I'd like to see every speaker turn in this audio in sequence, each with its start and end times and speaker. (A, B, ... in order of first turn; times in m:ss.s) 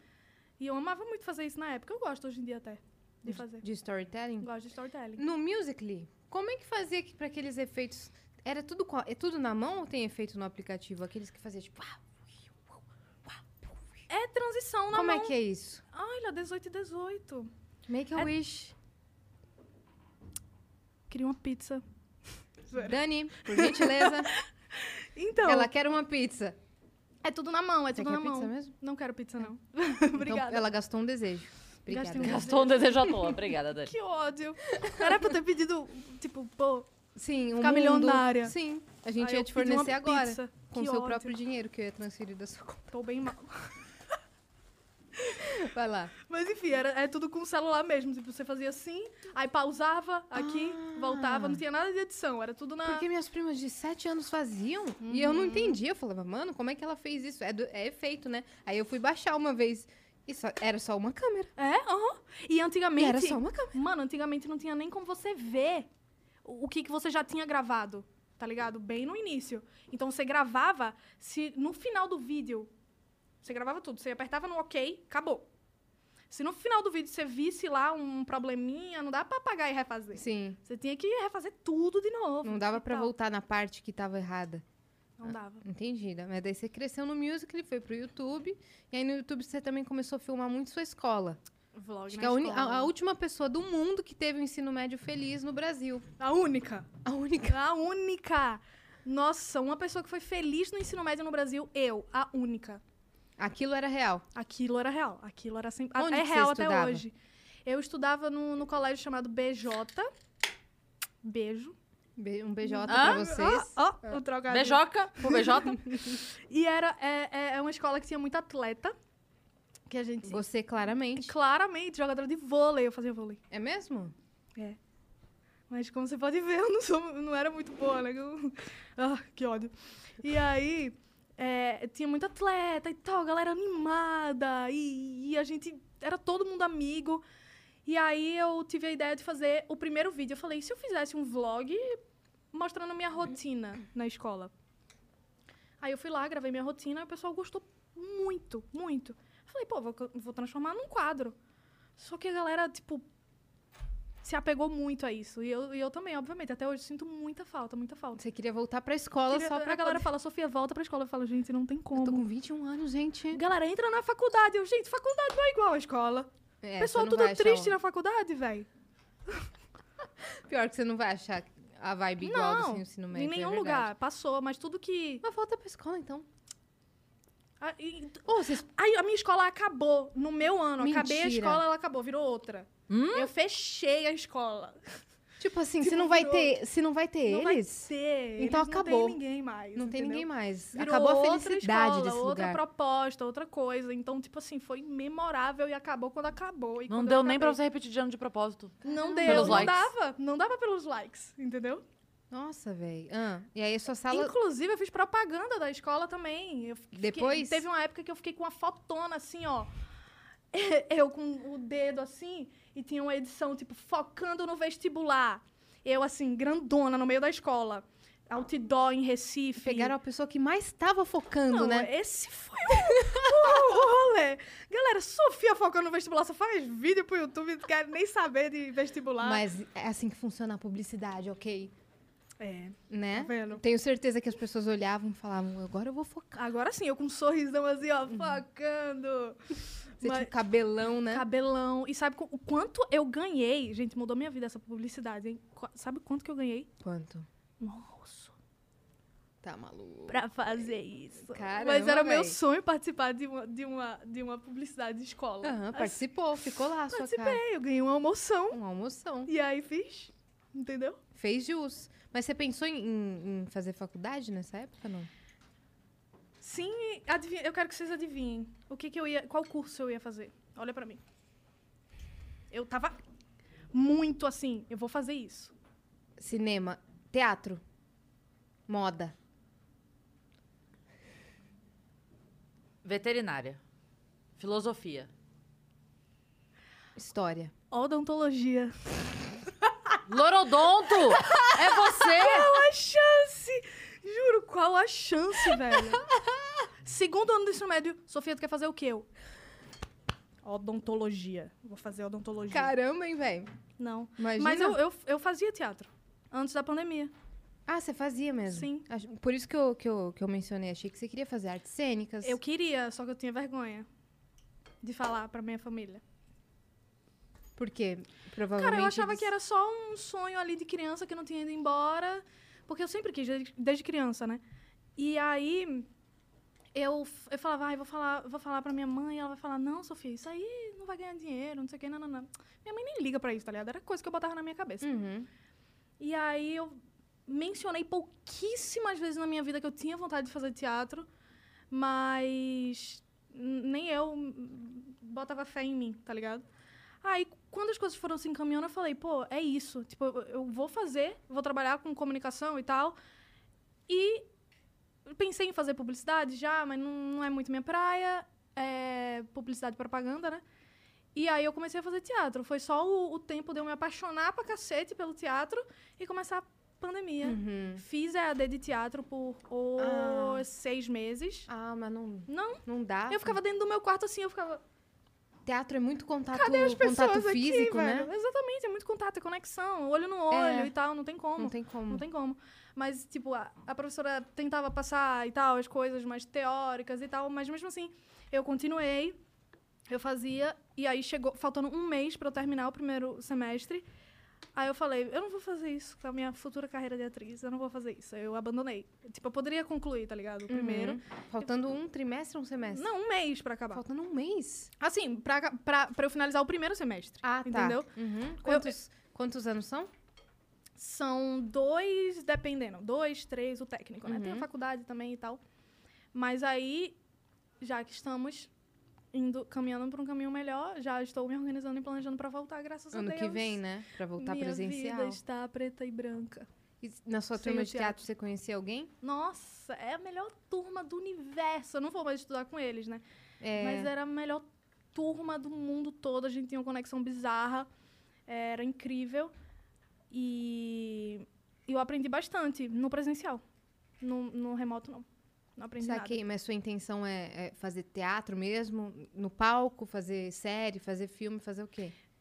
0:00.6-0:03.6 A
0:03.3-0:04.5 B
0:04.4-0:05.2 A
0:05.2-0:13.8 B
0:14.1-0:15.4 A
0:14.9-0:15.8 B
0:15.9-0:17.5 A
0:17.9-0:18.8 B
0:21.1-0:21.8 A
0:22.7-0:25.7 A
0:22.7-0:24.3 B
0:25.4-0:26.6 B
0:27.2-0:30.7 A
0:27.9-0:28.7 B
0:30.2-0:32.6 B
0:31.9-0:36.9 A
0:32.2-0:33.9 C
0:34.8-0:35.2 B
0:37.2-0:42.9 B
0:37.6-0:38.5 A
0:39.2-0:41.3 A
0:42.9-0:43.8 A
0:45.4-0:46.1 B
0:46.3-0:53.1 A
0:50.3-0:51.6 B
0:52.8-1:01.5 B
0:55.0-0:55.8 A
1:01.6-1:05.9 A
1:03.0-1:03.7 B
1:06.4-1:12.7 A
1:13.4-1:15.5 A
1:16.3-1:23.1 A
1:20.2-1:20.6 B
1:22.4-1:24.6 B
1:25.2-1:25.6 A
1:25.2-1:31.4 B
1:31.7-1:32.9 A
1:32.1-1:36.1 B
1:36.2-1:36.9 A
1:37.0-1:37.6 B
1:37.5-1:42.8 A
1:43.4-1:44.2 B
1:44.4-1:47.2 A
1:46.0-1:47.0 B
1:47.7-1:50.1 A
1:51.2-1:51.8 A
1:52.2-1:54.2 B
1:52.6-1:59.0 A
1:52.9-1:53.2 C
1:54.5-1:55.9 C
1:59.9-2:00.4 A
2:00.2-2:01.4 B
2:01.2-2:03.4 A
2:03.5-2:04.1 B
2:05.7-2:17.2 A
2:17.9-2:22.0 A
2:22.5-2:24.5 A
2:25.8-2:31.4 A
2:32.0-2:33.1 A
2:34.2-2:38.2 A
2:38.2-2:40.1 B
2:39.3-2:42.2 A
2:42.0-2:43.4 B
2:43.3-2:48.7 A
2:46.6-2:47.8 B
2:50.5-2:53.9 B
2:52.2-2:55.2 A
2:55.2-2:56.3 B
2:57.6-3:04.8 A
2:58.3-2:58.7 B
3:00.8-3:01.6 B
3:02.9-3:03.3 C
3:05.4-3:09.2 B
3:05.8-3:06.6 A
3:07.3-3:17.6 A
3:09.8-3:12.6 B
3:16.9-3:19.9 C
3:18.8-3:21.8 A
3:18.9-3:19.8 B
3:22.3-3:24.4 B
3:24.1-3:29.7 A
3:27.0-3:27.7 B
3:30.5-3:39.9 A
3:39.6-3:41.9 B
3:41.5-3:49.4 A
3:42.9-3:43.7 B
3:49.2-3:51.7 B
3:52.4-3:53.6 A
3:52.9-3:56.3 B
3:56.3-4:00.3 A
3:58.1-3:58.4 B
4:00.0-4:01.2 B
4:01.1-4:06.7 A
4:06.8-4:07.3 B
4:07.6-4:08.3 A
4:09.4-4:12.4 B
4:10.1-4:16.1 A
4:15.4-4:17.4 B
4:16.9-4:18.6 A
4:18.5-4:19.3 B
4:19.3-4:21.0 A
4:21.2-4:25.1 B
4:26.4-4:31.0 A
4:32.5-4:33.0 A
4:33.7-4:35.5 A
4:36.2-4:37.6 B
4:38.7-4:39.1 B
4:42.8-4:43.6 C
4:44.4-4:45.1 C
4:47.0-4:47.5 B
4:47.7-4:48.8 A
4:49.6-4:50.0 A
4:50.1-4:52.6 C
4:51.1-4:56.0 A
4:56.8-4:59.1 A
5:00.4-5:02.7 A
5:02.5-5:03.5 B
5:03.8-5:07.1 A
5:04.2-5:04.8 B
5:07.7-5:12.4 B
5:08.5-5:08.9 A
5:12.2-5:13.9 A
5:14.8-5:16.0 A
5:17.6-5:19.3 B
5:18.6-5:24.4 A
5:25.0-5:25.9 A
5:26.7-5:34.9 A
5:34.8-5:35.3 B
5:36.0-5:41.1 A
5:41.7-5:46.4 A
5:47.0-5:53.0 A
5:53.9-5:54.3 A
5:55.1-6:00.4 A
6:01.2-6:11.5 A
6:07.2-6:07.8 B
6:09.8-6:10.5 B
6:11.5-6:13.4 B
6:12.3-6:14.6 A
6:15.5-6:18.1 B
6:16.3-6:29.2 A
6:20.3-6:20.8 B
6:21.4-6:22.0 B
6:29.9-6:33.9 A
6:34.6-6:41.0 A
6:40.5-6:42.9 B
6:42.7-6:43.8 A
6:43.7-6:44.7 B
6:44.8-6:47.9 A
6:47.2-6:49.9 B
6:48.4-6:48.7 A
6:50.8-6:55.4 A
6:54.0-6:54.5 B
6:56.1-6:57.0 A
6:57.6-6:58.5 A
6:59.1-7:03.6 A
7:02.9-7:05.2 B
7:04.2-7:06.5 A
7:06.8-7:08.9 B
7:07.4-7:08.0 A
7:09.0-7:13.0 A
7:13.4-7:13.9 B
7:13.6-7:17.7 A
7:18.3-7:19.3 A
7:20.1-7:23.4 A
7:24.0-7:25.1 A
7:25.6-7:26.2 A
7:25.8-7:32.0 B